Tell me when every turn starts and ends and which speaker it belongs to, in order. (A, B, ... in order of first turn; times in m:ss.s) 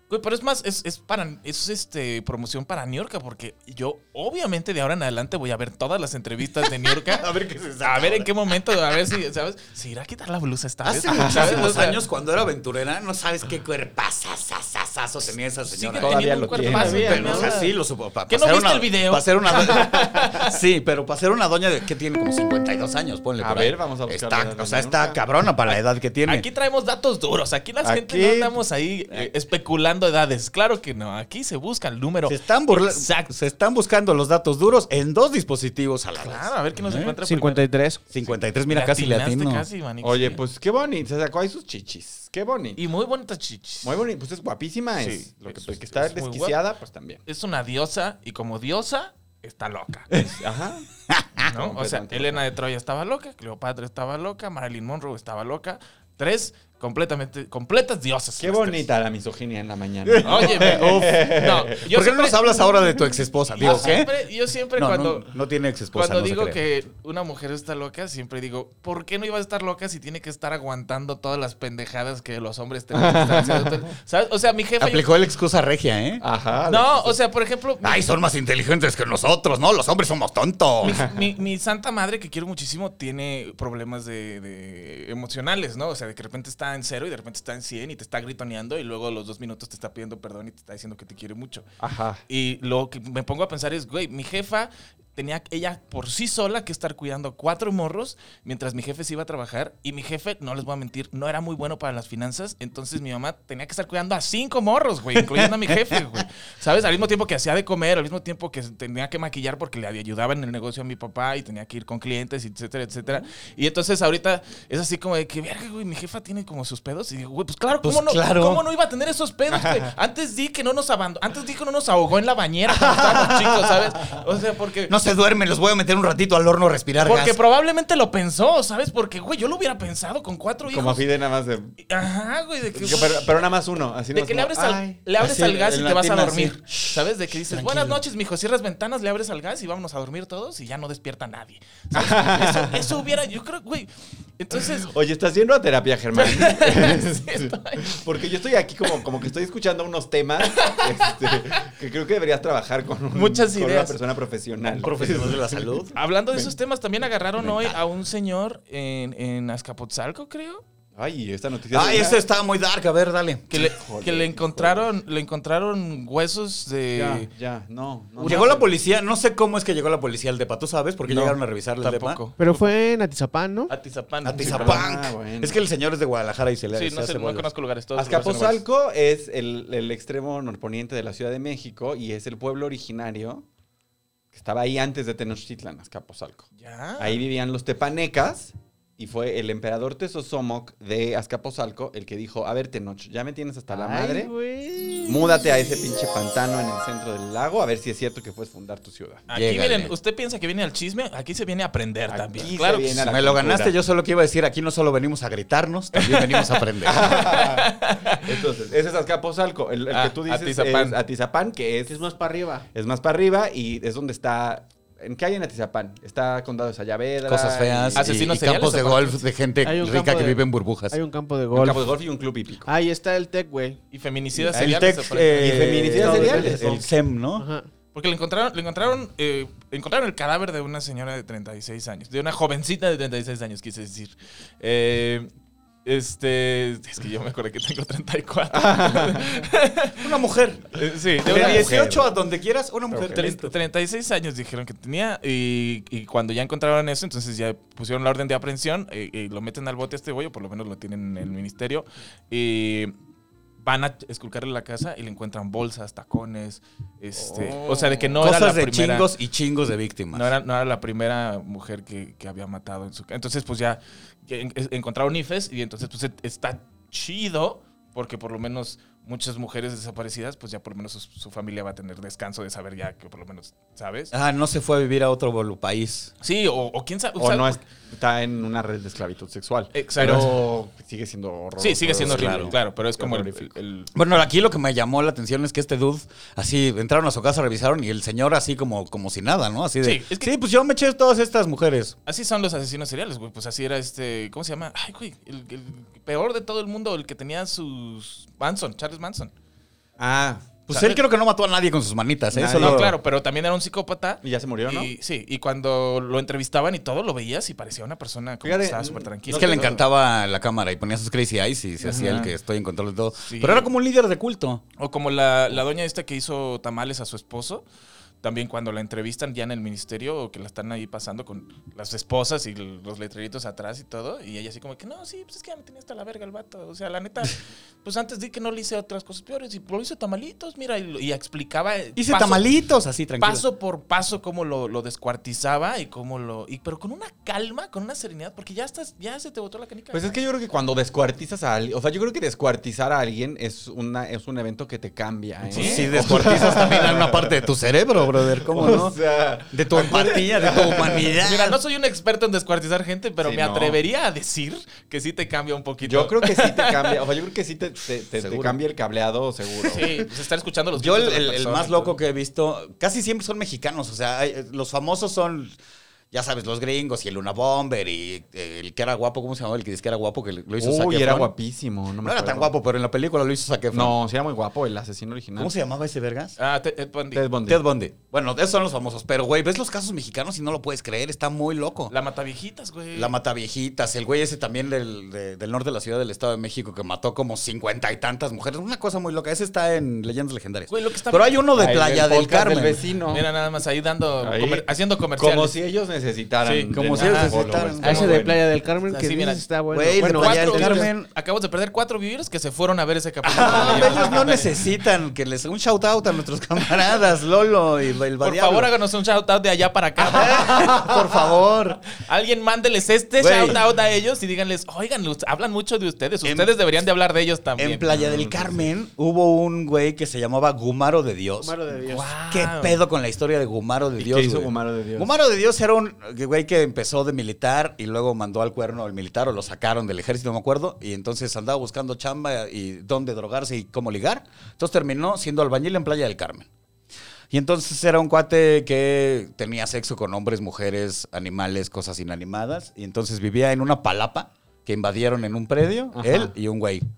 0:00.1-0:07.3 A
0:07.0-0:08.3 B
0:07.8-0:12.0 A
0:10.8-0:26.4 B
0:11.1-0:11.9 C
0:15.6-0:17.7 A
0:16.0-0:17.5 C
0:16.6-0:17.2 D
0:18.3-0:20.6 A
0:23.4-0:25.2 C
0:26.2-0:33.3 A
0:27.8-0:28.5 C
0:32.2-0:37.1 B
0:36.2-0:37.6 A
0:37.2-0:38.0 D
0:38.1-0:39.6 B
0:38.2-0:40.4 A
0:40.0-0:42.8 C
0:42.8-0:44.0 A
0:43.8-0:47.2 C
0:45.0-0:46.6 A
0:47.2-0:50.1 A
0:50.1-0:50.8 C
0:51.1-0:51.5 B
0:51.4-0:58.9 A
0:51.5-0:52.4 C
0:58.4-1:01.8 C
1:00.0-1:04.1 B
1:00.2-1:02.7 A
1:03.6-1:05.2 A
1:04.8-1:06.6 B
1:05.9-1:15.1 A
1:12.9-1:13.7 C
1:14.8-1:16.2 B
1:16.2-1:17.2 C
1:16.6-1:18.0 A
1:17.8-1:21.0 B
1:20.8-1:31.7 A
1:20.8-1:21.1 C
1:31.8-1:32.2 C
1:32.3-2:04.9 A
1:45.4-1:45.9 B
1:57.8-1:58.6 B
1:59.5-1:59.9 C
2:02.9-2:03.4 B
2:04.9-2:07.4 B
2:07.0-2:11.0 A
2:10.7-2:11.7 C
2:11.8-2:13.5 A
2:12.7-2:15.0 C
2:14.1-2:24.9 A
2:15.2-2:18.0 B
2:21.9-2:23.0 C
2:24.5-2:36.5 C
2:26.1-2:28.0 A
2:30.4-2:31.6 A
2:33.1-2:34.0 A
2:34.7-2:36.0 B
2:35.9-2:40.6 A
2:37.4-2:37.7 C
2:40.9-2:42.2 C
2:41.7-2:43.5 B
2:43.5-2:47.3 A
2:43.5-2:44.9 C
2:46.9-2:48.6 C
2:48.2-2:52.2 B
2:51.8-2:52.7 A
2:52.4-2:53.7 D
2:53.7-2:54.8 A
2:54.2-2:57.4 B
2:54.3-2:55.6 C
2:56.7-2:58.6 A
2:58.0-3:03.4 C
3:04.3-3:06.5 C
3:06.6-3:07.2 A
3:07.0-3:14.3 C
3:13.7-3:15.5 D
3:15.0-3:19.2 C
3:19.3-3:23.0 A
3:19.3-3:19.9 B
3:22.1-3:23.7 C
3:22.9-3:27.2 B
3:25.9-3:28.3 A
3:26.8-3:27.7 C
3:28.2-3:32.0 C
3:29.9-3:31.0 A
3:31.9-3:32.7 D
3:32.7-3:38.1 C
3:37.2-3:41.0 B
3:37.9-3:39.2 A
3:39.6-3:41.9 D
3:41.5-3:42.7 C
3:42.6-3:43.8 D
3:43.9-3:46.0 A
3:44.4-3:44.8 C
3:44.5-3:47.4 B
3:45.4-3:46.8 C
3:45.9-3:46.6 D
3:47.4-3:47.7 D
3:47.9-3:55.3 A
3:55.8-4:00.2 A
3:58.5-3:59.4 C
4:00.0-4:00.7 B
4:00.7-4:01.8 A
4:01.2-4:02.1 C
4:01.2-4:03.5 B
4:02.9-4:03.3 C
4:03.1-4:12.9 A
4:13.6-4:19.1 A
4:17.2-4:18.2 C
4:18.2-4:20.3 B
4:20.1-4:34.1 A
4:34.1-4:36.1 B
4:36.2-4:37.6 A
4:37.2-4:43.5 C
4:39.7-4:40.4 A
4:41.6-4:43.9 A
4:42.0-4:42.5 B
4:43.9-4:51.9 B
4:49.8-4:50.3 A
4:52.0-4:59.3 A
5:00.0-5:00.6 C
5:00.7-5:01.0 A
5:00.7-5:02.9 B
5:02.3-5:02.9 C
5:02.5-5:09.8 A
5:04.2-5:04.9 C
5:08.4-5:09.8 C
5:09.3-5:14.6 B
5:11.8-5:12.3 A
5:11.9-5:12.2 C
5:13.2-5:13.7 A
5:14.8-5:17.6 A
5:18.2-5:32.4 A
5:32.0-5:33.4 B
5:33.2-5:40.1 A
5:39.9-5:47.5 C
5:45.5-5:46.0 A
5:45.5-5:49.0 B
5:48.4-5:51.2 C
5:49.5-5:51.6 B
5:50.8-5:57.0 A
5:53.2-5:53.8 C
5:55.8-6:00.1 C
5:58.2-5:58.6 B
5:59.6-6:02.0 A
6:00.8-6:05.6 B
6:06.1-6:11.3 B
6:10.6-6:12.5 C
6:12.0-6:14.0 B
6:13.7-6:15.5 C
6:15.4-6:16.4 B
6:16.4-6:17.2 A
6:17.1-6:17.6 C
6:17.4-6:21.9 B
6:21.9-6:23.1 A
6:22.9-6:32.8 B
6:30.7-6:31.8 A
6:31.5-6:33.2 C
6:33.1-6:35.5 A
6:34.2-6:34.7 C
6:35.2-6:38.4 C
6:36.4-6:38.3 A
6:36.7-6:38.2 B
6:37.8-6:40.9 D
6:38.9-6:39.4 A
6:39.7-6:41.1 B
6:40.0-6:44.5 A
6:43.3-6:44.4 C
6:43.4-6:48.7 B
6:48.2-6:51.0 A
6:50.0-6:51.8 B
6:52.0-6:58.0 A
6:53.2-6:53.6 B
6:56.2-6:56.5 B
6:57.6-7:01.5 B
6:57.9-6:58.6 C
7:01.4-7:02.1 D
7:01.9-7:02.8 A
7:02.3-7:16.5 B
7:04.0-7:05.1 C
7:17.3-7:26.8 B
7:25.9-7:26.3 C